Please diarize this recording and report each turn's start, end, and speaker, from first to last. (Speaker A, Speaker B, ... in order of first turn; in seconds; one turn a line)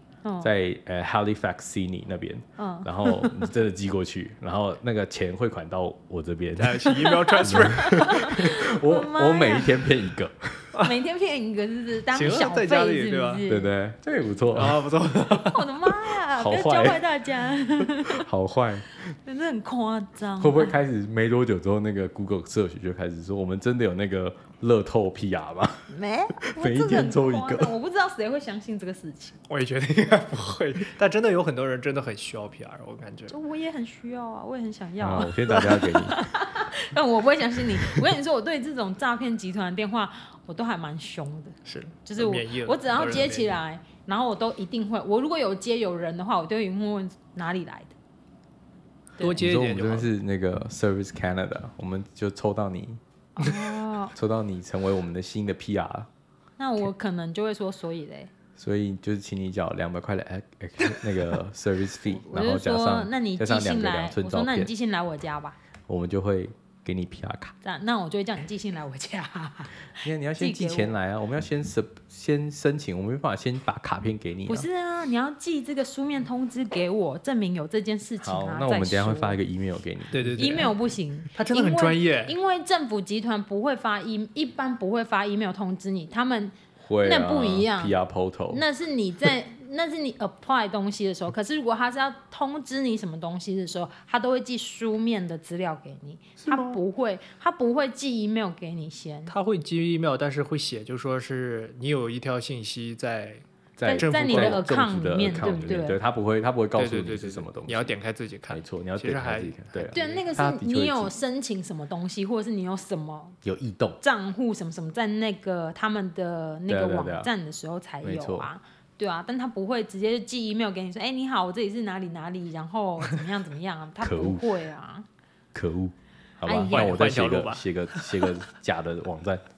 Speaker A: 0.2-0.5
Speaker B: 0.4-10.7
Speaker A: 2.6-3.5
Speaker C: 6.6-8.4
Speaker A: 6.9-9.9
Speaker C: 10.7-11.0
Speaker A: 10.8-13.7
Speaker C: 12.1-13.4
Speaker B: 13.5-14.8
Speaker C: 14.5-15.8
Speaker A: 15.4-18.3
Speaker B: 16.3-17.0
Speaker B: 17.8-19.1
Speaker A: 19.2-20.8
Speaker B: 20.4-25.9
Speaker A: 25.9-29.4
Speaker B: 26.4-27.7
Speaker C: 29.5-33.4
Speaker A: 33.3-47.9
Speaker B: 35.0-36.2
Speaker C: 41.6-43.5
Speaker C: 49.2-50.1
Speaker B: 49.2-53.5
Speaker A: 53.4-54.1
Speaker B: 54.1-56.1
Speaker A: 56.6-58.3
Speaker B: 58.6-64.7
Speaker A: 62.2-65.6
Speaker B: 65.9-67.5
Speaker A: 67.6-70.9
Speaker B: 70.0-74.7
Speaker A: 74.5-79.4
Speaker B: 78.2-80.7
Speaker C: 80.1-80.8
Speaker A: 80.4-88.0
Speaker C: 81.3-82.4
Speaker B: 86.8-88.6
Speaker A: 88.5-99.3
Speaker C: 96.5-96.8
Speaker C: 99.3-103.4
Speaker B: 103.8-108.0
Speaker A: 103.8-106.0
Speaker C: 104.0-104.7
Speaker C: 106.8-110.3
Speaker B: 108.5-111.1
Speaker A: 109.9-113.4
Speaker B: 113.4-114.0
Speaker A: 114.0-125.1
Speaker B: 116.7-117.3
Speaker B: 118.0-118.5
Speaker B: 124.0-124.5
Speaker B: 125.5-129.5
Speaker A: 126.5-127.0
Speaker C: 126.7-127.6